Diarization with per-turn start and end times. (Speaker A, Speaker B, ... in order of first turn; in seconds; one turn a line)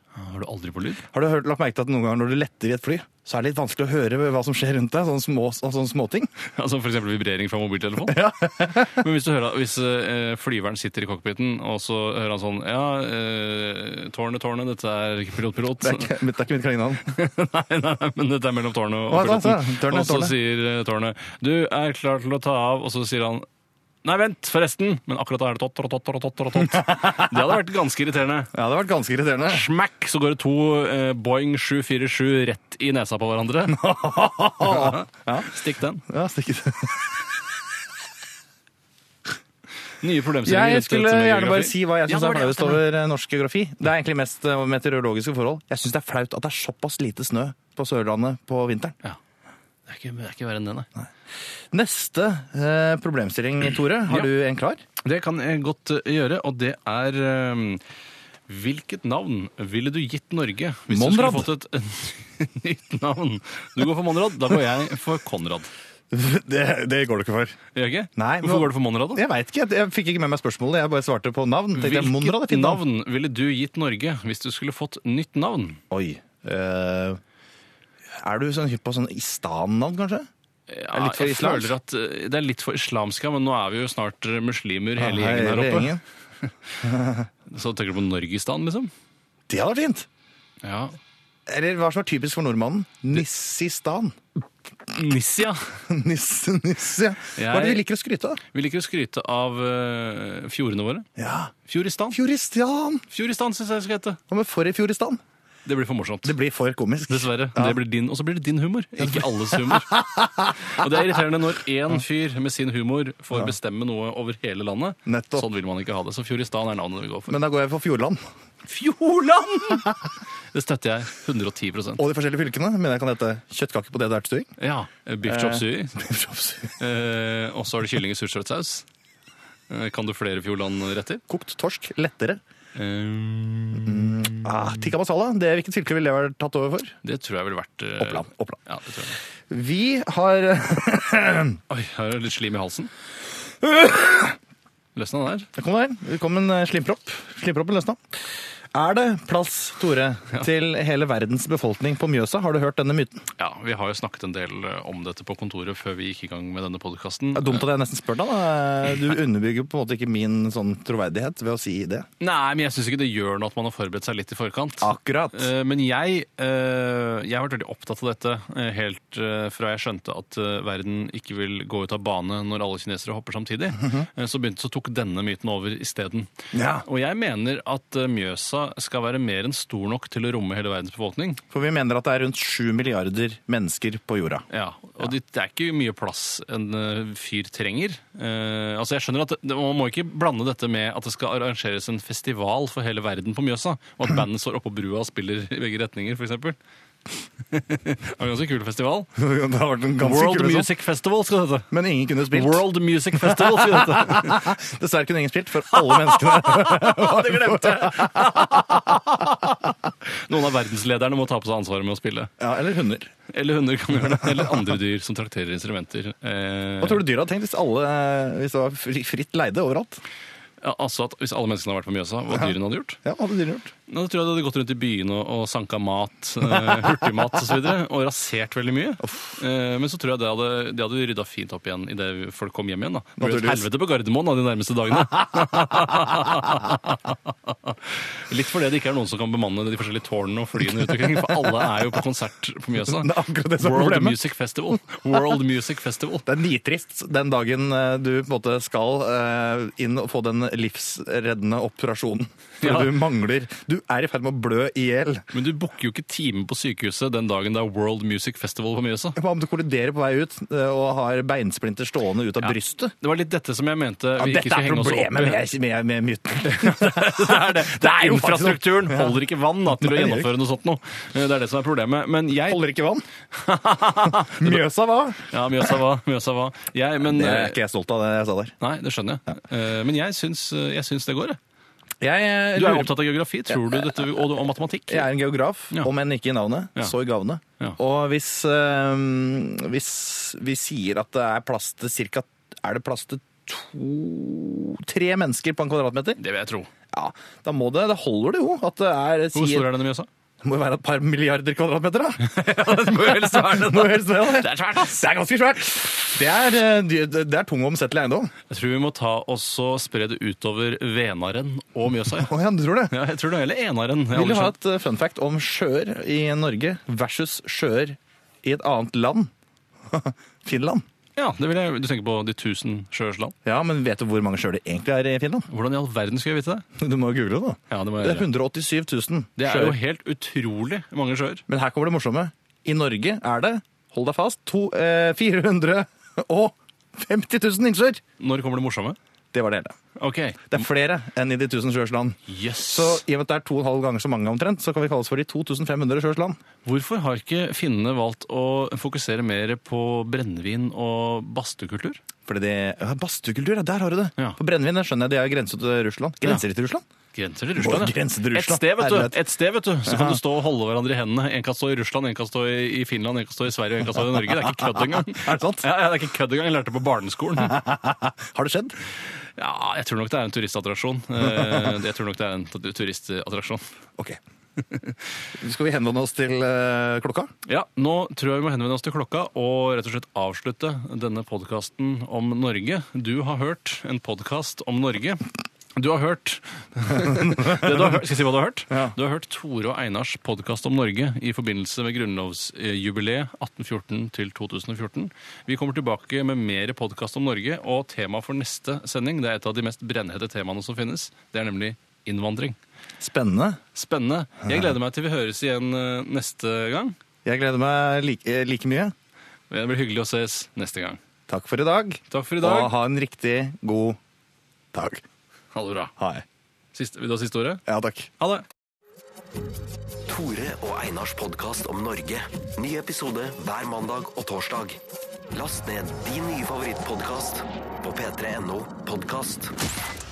Speaker A: 0.1-1.0
Speaker B: 1.1-6.3
Speaker A: 6.5-16.2
Speaker B: 8.1-9.0
Speaker B: 15.8-17.1
Speaker A: 17.1-23.4
Speaker B: 19.1-20.3
Speaker A: 24.0-28.5
Speaker B: 26.7-27.4
Speaker B: 28.5-29.7
Speaker A: 29.5-33.8
Speaker B: 33.7-35.5
Speaker A: 34.6-36.0
Speaker B: 36.0-37.3
Speaker A: 40.0-42.9
Speaker B: 40.4-48.9
Speaker A: 49.9-50.9
Speaker B: 51.7-54.8
Speaker A: 55.0-57.8
Speaker A: 58.5-65.7
Speaker B: 60.9-61.5
Speaker B: 66.1-67.6
Speaker A: 67.7-69.2
Speaker B: 68.2-72.8
Speaker A: 71.7-75.8
Speaker B: 75.9-77.2
Speaker B: 78.1-80.3
Speaker A: 80.7-86.8
Speaker B: 80.9-81.7
Speaker B: 85.0-86.0
Speaker B: 86.8-87.3
Speaker A: 87.5-88.9
Speaker B: 89.5-90.1
Speaker A: 90.6-91.0
Speaker B: 91.5-94.2
Speaker A: 94.9-95.6
Speaker B: 95.9-98.4
Speaker A: 97.3-97.8
Speaker A: 98.5-101.1
Speaker B: 101.2-101.5
Speaker A: 101.7-102.2
Speaker B: 102.1-103.0
Speaker A: 103.1-104.2
Speaker B: 104.3-105.2
Speaker A: 105.7-106.3
Speaker B: 106.2-107.8
Speaker A: 107.1-110.0
Speaker B: 109.7-110.5
Speaker A: 110.6-117.3
Speaker B: 115.0-115.5
Speaker B: 117.3-118.2
Speaker A: 118.6-119.9
Speaker A: 120.5-122.0
Speaker B: 122.0-124.5
Speaker A: 124.6-126.0
Speaker B: 125.2-126.7
Speaker A: 126.8-128.8
Speaker A: 129.7-131.2
Speaker B: 131.3-132.4
Speaker A: 132.7-134.5
Speaker B: 133.9-136.9
Speaker A: 137.0-139.2
Speaker B: 138.0-138.6
Speaker B: 139.5-141.6
Speaker A: 141.7-142.9
Speaker B: 143.6-144.3
Speaker A: 144.9-145.5
Speaker B: 145.5-148.0
Speaker B: 148.7-153.2
Speaker A: 153.4-157.6
Speaker B: 157.3-162.1
Speaker A: 162.2-181.4
Speaker B: 164.8-165.5
Speaker B: 176.5-176.8
Speaker B: 181.5-184.4
Speaker A: 184.5-196.6
Speaker A: 197.5-199.1
Speaker B: 199.2-200.7
Speaker A: 200.0-201.7
Speaker B: 201.7-209.5
Speaker A: 202.3-204.5
Speaker A: 205.7-212.3
Speaker B: 212.4-213.1
Speaker A: 213.3-217.0
Speaker B: 216.8-220.0
Speaker A: 220.6-223.0
Speaker B: 222.3-223.7
Speaker A: 223.9-246.2
Speaker B: 229.0-229.3
Speaker B: 233.2-233.7
Speaker B: 235.7-236.3
Speaker B: 240.8-241.6
Speaker B: 242.8-244.2
Speaker B: 246.2-255.2
Speaker A: 252.6-253.0
Speaker A: 255.3-259.2
Speaker B: 259.2-262.9
Speaker A: 262.4-265.4
Speaker B: 264.2-270.3
Speaker A: 266.4-272.6
Speaker B: 272.4-273.0
Speaker A: 273.3-274.6
Speaker B: 274.2-275.7
Speaker A: 275.3-277.6
Speaker B: 277.0-278.5
Speaker A: 278.6-281.4
Speaker B: 282.0-283.0
Speaker A: 282.6-285.1
Speaker B: 283.5-284.0
Speaker B: 284.9-296.2
Speaker A: 296.2-296.7
Speaker B: 296.9-299.7
Speaker A: 299.3-300.1
Speaker B: 300.4-302.3
Speaker A: 302.2-305.0
Speaker B: 302.9-308.3
Speaker A: 308.5-312.3
Speaker B: 312.2-312.9
Speaker A: 312.9-314.5
Speaker B: 314.1-319.3
Speaker B: 319.9-320.8
Speaker A: 321.1-323.3
Speaker B: 323.4-325.5
Speaker A: 325.5-326.6
Speaker B: 326.8-329.8
Speaker A: 327.7-328.3
Speaker A: 329.4-331.4
Speaker B: 331.5-338.0
Speaker A: 338.2-339.0
Speaker B: 339.3-339.8
Speaker A: 340.0-340.6
Speaker B: 340.5-346.4
Speaker A: 342.3-343.0
Speaker A: 346.6-352.0
Speaker B: 352.3-356.8
Speaker A: 357.1-367.6
Speaker B: 357.6-359.2
Speaker B: 359.8-360.2
Speaker B: 364.1-365.6
Speaker B: 367.4-368.8
Speaker A: 369.4-373.6
Speaker B: 371.2-371.8
Speaker A: 374.6-375.0
Speaker B: 375.4-377.3
Speaker A: 377.4-385.2
Speaker A: 385.8-402.6
Speaker B: 387.2-387.8
Speaker B: 403.0-403.6
Speaker A: 403.7-406.9
Speaker B: 407.2-408.9
Speaker A: 409.5-411.0
Speaker B: 411.3-414.0
Speaker A: 412.1-412.7
Speaker B: 414.7-415.0
Speaker A: 415.5-415.9
Speaker B: 416.0-416.2
Speaker A: 416.7-417.6
Speaker B: 417.7-418.1
Speaker A: 418.2-418.4
Speaker C: 420.1-424.8
Speaker C: 425.3-429.5